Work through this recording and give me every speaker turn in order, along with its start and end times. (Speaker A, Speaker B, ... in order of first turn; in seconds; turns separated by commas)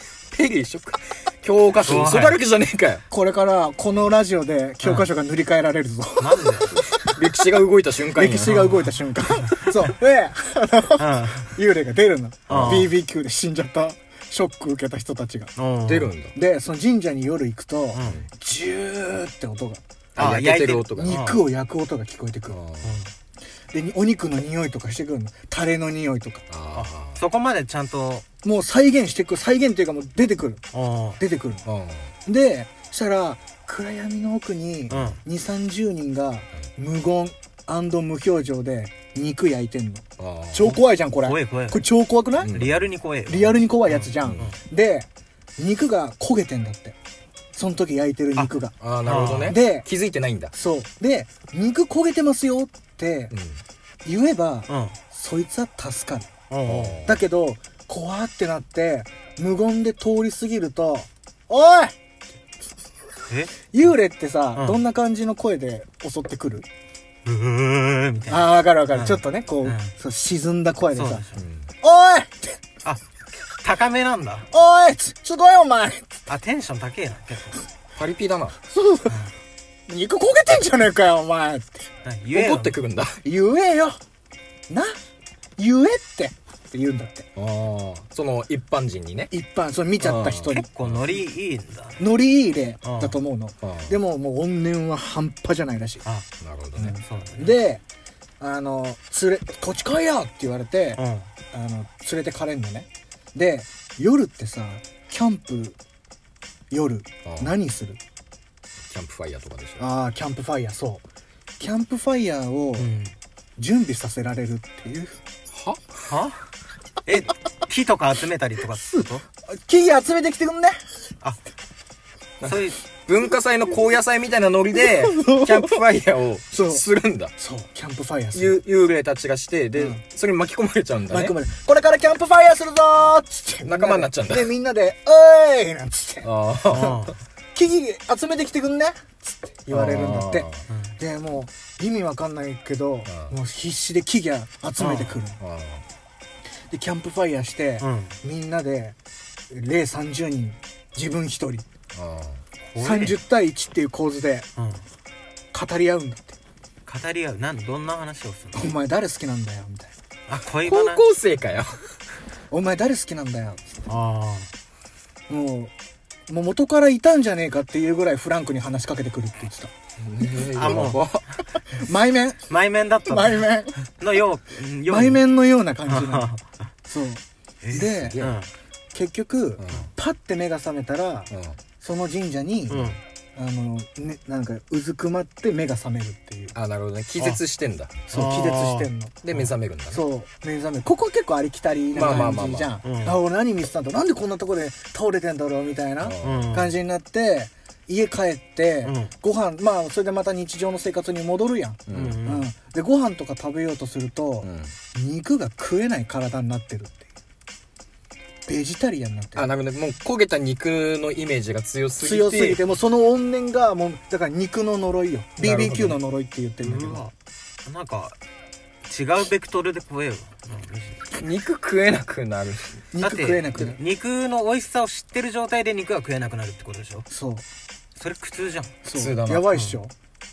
Speaker A: 0.3-3.0, Speaker B: 1.8-2.4, Speaker C: 3.1-7.2, Speaker B: 4.8-5.1, Speaker B: 6.2-6.7, Speaker A: 7.0-8.7, Speaker C: 8.1-15.5, Speaker B: 11.0-11.6, Speaker A: 12.5-12.9, Speaker B: 12.5-12.9, Speaker B: 15.6-16.1, Speaker A: 15.8-16.3, Speaker C: 16.3-19.8, Speaker B: 17.9-18.2, Speaker B: 20.1-21.4, Speaker A: 20.2-21.2, Speaker C: 20.9-22.6, Speaker A: 22.5-23.0, Speaker B: 22.8-23.1, Speaker C: 23.7-26.4, Speaker A: 26.5-27.2, Speaker B: 26.7-28.2, Speaker C: 28.4-30.6, Speaker B: 30.7-31.2, Speaker C: 31.2-31.6, Speaker A: 31.6-32.1, Speaker C: 32.2-42.5, Speaker A: 34.9-35.2, Speaker B: 34.9-35.2, Speaker A: 40.2-40.7, Speaker B: 40.6-41.8, Speaker A: 42.4-42.9, Speaker B: 42.4-44.6, Speaker C: 43.3-46.9, Speaker A: 44.2-44.5, Speaker C: 47.5-48.7, Speaker A: 48.8-50.5, Speaker B: 49.0-49.6, Speaker C: 49.5-49.9, Speaker C: 50.5-53.3, Speaker A: 53.3-53.6, Speaker C: 54.0-56.3, Speaker B: 54.7-54.9, Speaker B: 56.5-57.0, Speaker A: 56.6-57.2, Speaker C: 57.0-61.9, Speaker B: 63.3-63.7, Speaker C: 63.7-66.7, Speaker B: 64.5-64.8, Speaker B: 67.2-69.9, Speaker C: 68.3-71.2, Speaker B: 70.9-71.4, Speaker A: 71.3-71.7, Speaker C: 71.8-72.6, Speaker B: 73.6-74.5, Speaker C: 74.5-76.1, Speaker B: 76.3-77.6, Speaker A: 78.0-78.5, Speaker C: 78.7-79.2, Speaker C: 79.9-81.8, Speaker B: 82.0-82.8, Speaker A: 82.3-83.2, Speaker C: 83.2-84.0, Speaker C: 84.7-85.0, Speaker C: 85.6-87.2, Speaker A: 87.3-89.3, Speaker C: 89.3-90.7, Speaker A: 90.0-91.1, Speaker B: 90.5-92.0, Speaker C: 92.0-96.0, Speaker B: 92.8-93.2, Speaker A: 93.6-94.0, Speaker A: 96.4-97.0, Speaker C: 96.8-97.8, Speaker B: 97.0-97.6, Speaker C: 98.4-105.8, Speaker B: 101.0-101.3, Speaker C: 106.7-108.0, Speaker A: 107.2-107.5, Speaker A: 108.9-109.8, Speaker C: 109.8-111.0, Speaker C: 111.6-112.9, Speaker B: 112.8-113.1, Speaker C: 113.6-115.2, Speaker A: 115.5-116.0, Speaker B: 116.1-116.5, Speaker B: 117.0-119.2, Speaker C: 118.7-120.8, Speaker A: 122.4-127.3, Speaker B: 122.5-122.8, Speaker C: 124.8-125.8, Speaker C: 126.5-128.6, Speaker A: 128.3-131.3, Speaker C: 129.8-130.0, Speaker C: 131.1-136.3, Speaker A: 133.6-134.5, Speaker A: 136.2-137.1, Speaker B: 136.7-137.1, Speaker C: 137.5-145.4, Speaker A: 139.7-140.6, Speaker B: 140.7-140.9, Speaker A: 143.1-143.3, Speaker B: 144.8-145.1, Speaker A: 145.4-145.8, Speaker C: 146.7-148.9, Speaker B: 147.8-148.2, Speaker C: 149.5-151.7, Speaker A: 151.9-152.4, Speaker B: 152.7-153.2, Speaker C: 152.8-154.4, Speaker B: 154.6-154.8, Speaker C: 155.5-156.3, Speaker B: 156.9-158.7, Speaker C: 158.5-159.9, Speaker B: 160.3-161.0, Speaker A: 160.6-161.7, Speaker C: 162.5-163.6, Speaker B: 163.9-164.5, Speaker C: 165.3-165.7, Speaker C: 166.3-169.7, Speaker A: 170.0-171.2, Speaker B: 170.4-171.0, Speaker C: 171.8-172.4, Speaker B: 172.5-173.5, Speaker C: 173.1-173.7, Speaker B: 174.0-175.2, Speaker C: 174.9-176.3, Speaker B: 175.8-176.4, Speaker C: 176.8-178.2, Speaker B: 177.6-178.5, Speaker A: 177.7-178.4, Speaker C: 178.9-186.5, Speaker A: 179.6-179.9, Speaker A: 181.3-181.6, Speaker B: 182.7-183.0, Speaker A: 186.5-188.0, Speaker C: 188.1-189.2, Speaker B: 188.1-189.5, Speaker A: 189.2-190.0, Speaker C: 189.9-207.0, Speaker A: 191.9-192.7, Speaker B: 191.9-193.2, Speaker A: 196.0-196.6, Speaker B: 196.2-196.8, Speaker B: 198.8-199.1, Speaker A: 201.9-202.2, Speaker B: 201.9-202.5, Speaker A: 204.4-204.7, Speaker C: 208.5-209.5, Speaker A: 209.3-212.6, Speaker C: 212.0-217.0, Speaker A: 215.4-216.0, Speaker B: 216.6-217.1, Speaker B: 217.6-218.2, Speaker B: 218.9-221.1, Speaker A: 221.1-222.8, Speaker C: 222.9-223.8, Speaker B: 223.0-227.1, Speaker C: 227.1-227.4, Speaker B: 228.0-228.7, Speaker C: 228.8-229.9, Speaker A: 228.9-229.5, Speaker B: 229.5-229.8